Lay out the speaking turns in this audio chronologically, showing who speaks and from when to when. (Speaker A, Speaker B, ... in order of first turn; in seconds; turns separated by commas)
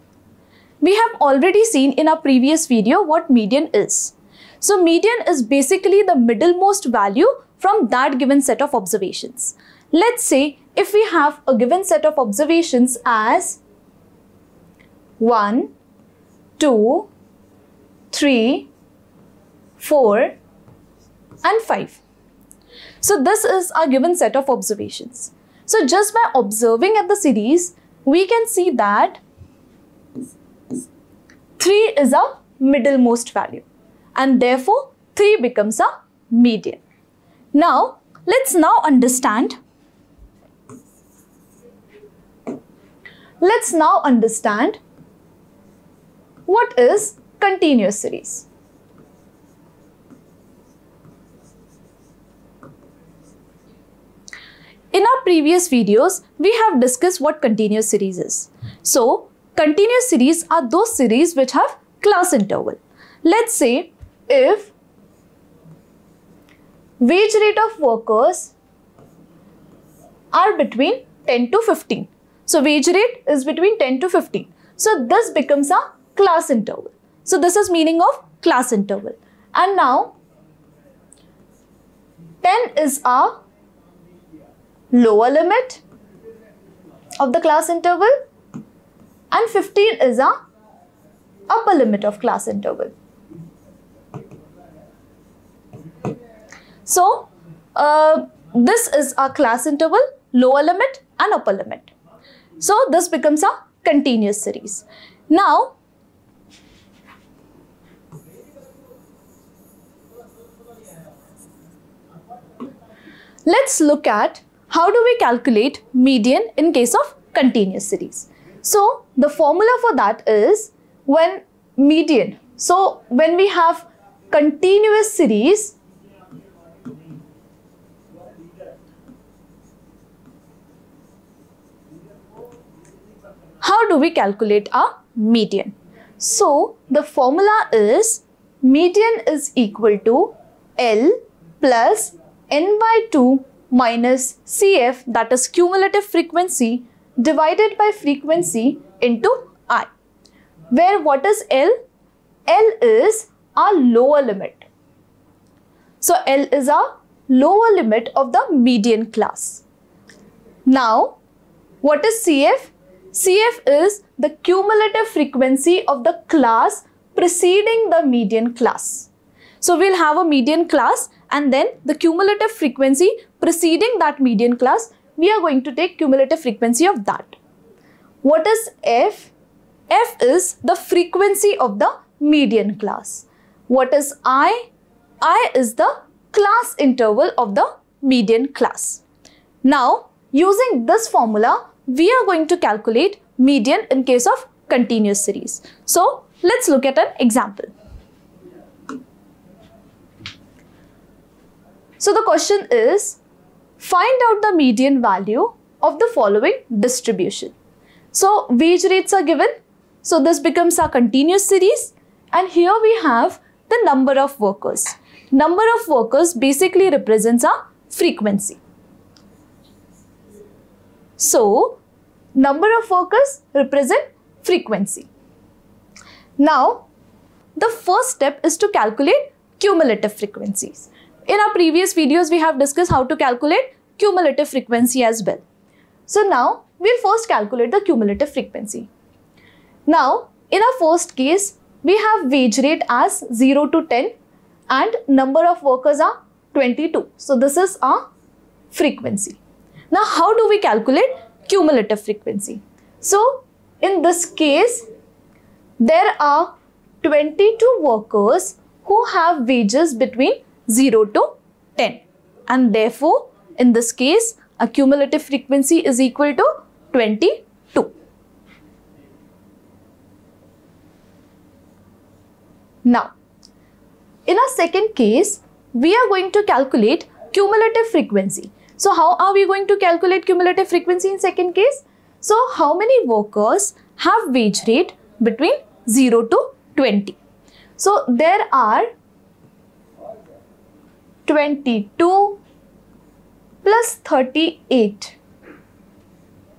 Speaker A: 0.8-13.6, Speaker A: 15.2-15.7, Speaker A: 16.6-17.1, Speaker A: 18.1-18.7, Speaker A: 19.8-20.4, Speaker A: 21.4-22.0, Speaker A: 23.0-29.2, Speaker A: 31.6-36.8, Speaker A: 37.5-39.6, Speaker A: 43.4-44.8, Speaker A: 46.5-48.5, Speaker A: 54.9-64.7, Speaker A: 67.0-68.5, Speaker A: 70.3-80.2, Speaker A: 82.4-83.4, Speaker A: 84.9-85.8, Speaker A: 87.2-88.1, Speaker A: 89.3-90.3, Speaker A: 91.5-92.9, Speaker A: 96.9-101.9, Speaker A: 102.6-105.8, Speaker A: 113.5-125.8, Speaker A: 133.6-149.9, Speaker A: 150.7-151.8, Speaker A: 152.5-154.7, Speaker A: 156.0-159.6, Speaker A: 160.7-161.2, Speaker A: 161.8-169.1, Speaker A: 169.6-177.4, Speaker A: 178.2-179.3, Speaker A: 179.9-184.7, Speaker A: 185.2-189.0, Speaker A: 189.6-197.7, Speaker A: 202.0-203.2, Speaker A: 203.8-207.5, Speaker A: 208.1-218.6, Speaker A: 221.2-221.8, Speaker A: 222.4-225.1, Speaker A: 226.4-226.9, Speaker A: 227.6-235.4, Speaker A: 236.1-238.9, Speaker A: 239.9-244.2, Speaker A: 244.7-248.0, Speaker A: 248.7-249.4, Speaker A: 249.9-254.8, Speaker A: 255.8-267.9, Speaker A: 272.9-273.1, Speaker A: 274.3-287.2, Speaker A: 287.8-288.9, Speaker A: 291.3-292.4, Speaker A: 293.6-295.2